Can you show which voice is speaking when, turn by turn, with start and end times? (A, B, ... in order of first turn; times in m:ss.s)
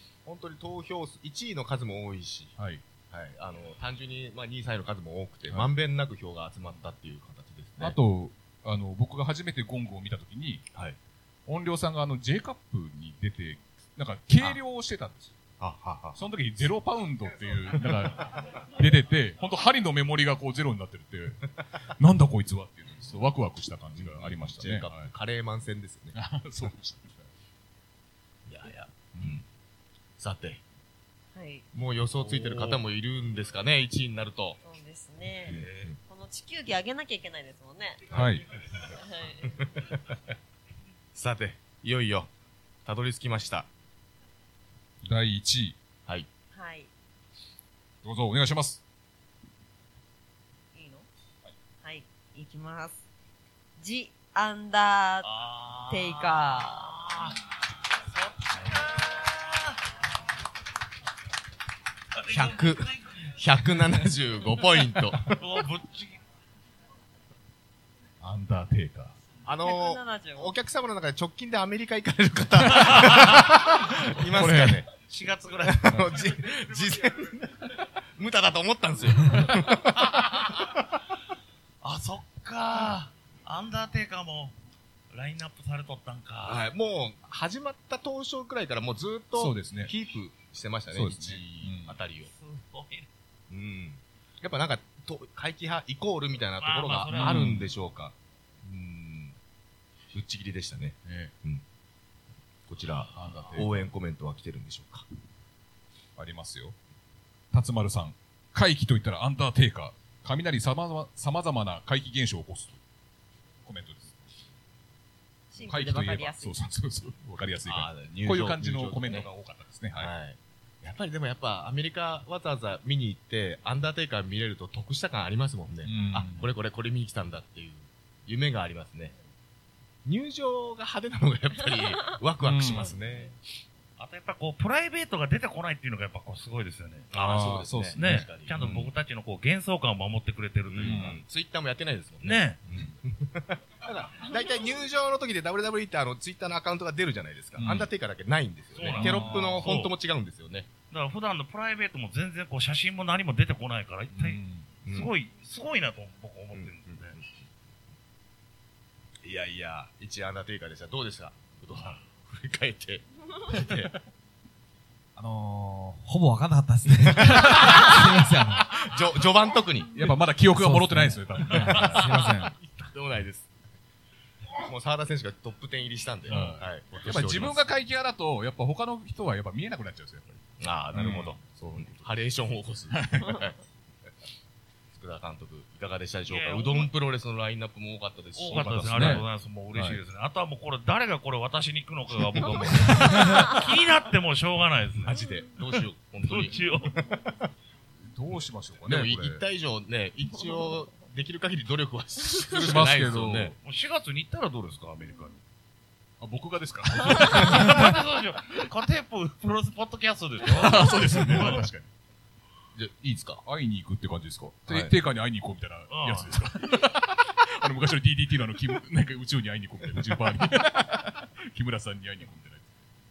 0:00.2-0:02.5 A
0:02.6-0:02.8 B
0:03.1-0:08.0 A
0:07.8-0:10.6 B
0:11.4-0:15.3 B
0:15.6-0:16.2 A
0:16.2-0:25.1 B
0:23.9-0:26.2 A
0:26.1-0:27.3 B
0:28.5-0:29.4 A
0:29.2-0:29.4 B
0:30.2-0:30.6 A
0:31.3-0:31.6 C
0:31.7-0:34.6 A
0:34.6-0:38.0 C
0:35.4-0:36.0 A
0:38.1-0:38.4 B
0:38.1-0:38.4 A
0:38.9-0:39.5 C
0:39.5-0:40.2 A
0:41.1-0:42.3 A
0:42.8-0:43.7 A
0:45.0-0:45.8 B
0:46.5-0:46.9 C
0:48.0-0:48.8 B
0:50.7-0:51.1 C
0:51.8-0:53.0 C
0:53.8-0:55.3 C
0:55.2-0:57.4 D
0:55.9-0:57.0 C
0:58.1-0:59.8 D
1:02.2-1:02.9 D
1:02.3-1:05.4 A
1:05.3-1:06.2 D
1:08.2-1:09.2 B
1:09.4-1:14.9 A
1:09.6-1:10.5 C
1:12.7-1:13.2 B
1:14.2-1:14.8 B
1:14.9-1:15.9 D
1:15.6-1:20.7 A
1:20.0-1:20.5 D
1:21.8-1:24.5 D
1:25.1-1:26.6 D
1:26.4-1:32.3 A
1:29.3-1:29.9 B
1:30.9-1:32.0 B
1:32.3-1:33.1 D
1:33.5-1:39.3 A
1:36.6-1:37.6 D
1:37.1-1:37.7 B
1:40.1-1:41.6 A
1:41.0-1:41.3 B
1:42.7-1:45.0 A
1:43.1-1:43.8 B
1:46.2-1:46.8 B
1:47.5-1:52.8 B
1:53.6-1:54.2 B
1:55.5-1:56.6 C
1:55.6-2:00.1 B
1:57.6-1:59.3 A
2:00.0-2:09.1 A
2:05.8-2:06.5 B
2:10.0-2:13.3 A
2:12.4-2:12.9 B
2:14.0-2:17.1 D
2:17.1-2:18.7 A
2:17.1-2:18.9 B
2:18.0-2:21.1 D
2:20.7-2:30.7 A
2:20.8-2:21.2 B
2:22.2-2:22.6 D
2:27.6-2:27.9 B
2:28.8-2:29.9 D
2:28.8-2:29.7 B
2:30.9-2:37.2 D
2:34.1-2:34.7 B
2:34.8-2:35.1 A
2:36.5-2:37.2 A
2:39.2-2:43.9 A
2:45.2-2:48.7 E
2:47.3-2:48.1 A
2:47.3-2:47.7 B
2:48.7-2:49.9 A
2:49.9-2:52.2 B
2:50.5-2:52.5 E
2:51.4-2:53.5 A
2:54.6-2:57.7 A
2:56.3-3:00.4 B
3:00.6-3:03.6 A
3:00.9-3:02.1 B
3:02.9-3:03.5 B
3:04.9-3:09.2 A
3:06.3-3:06.9 D
3:08.4-3:17.0 D
3:08.5-3:10.0 B
3:12.3-3:13.4 A
3:12.8-3:13.2 B
3:15.0-3:17.5 A
3:18.1-3:19.4 B
3:18.8-3:23.5 A
3:22.5-3:23.6 B
3:23.6-3:25.4 D
3:26.2-3:28.0 B
3:27.1-3:31.6 D
3:30.4-3:31.9 B
3:32.8-3:33.4 A
3:33.4-3:42.7 B
3:34.7-3:34.9 A
3:35.9-3:36.3 D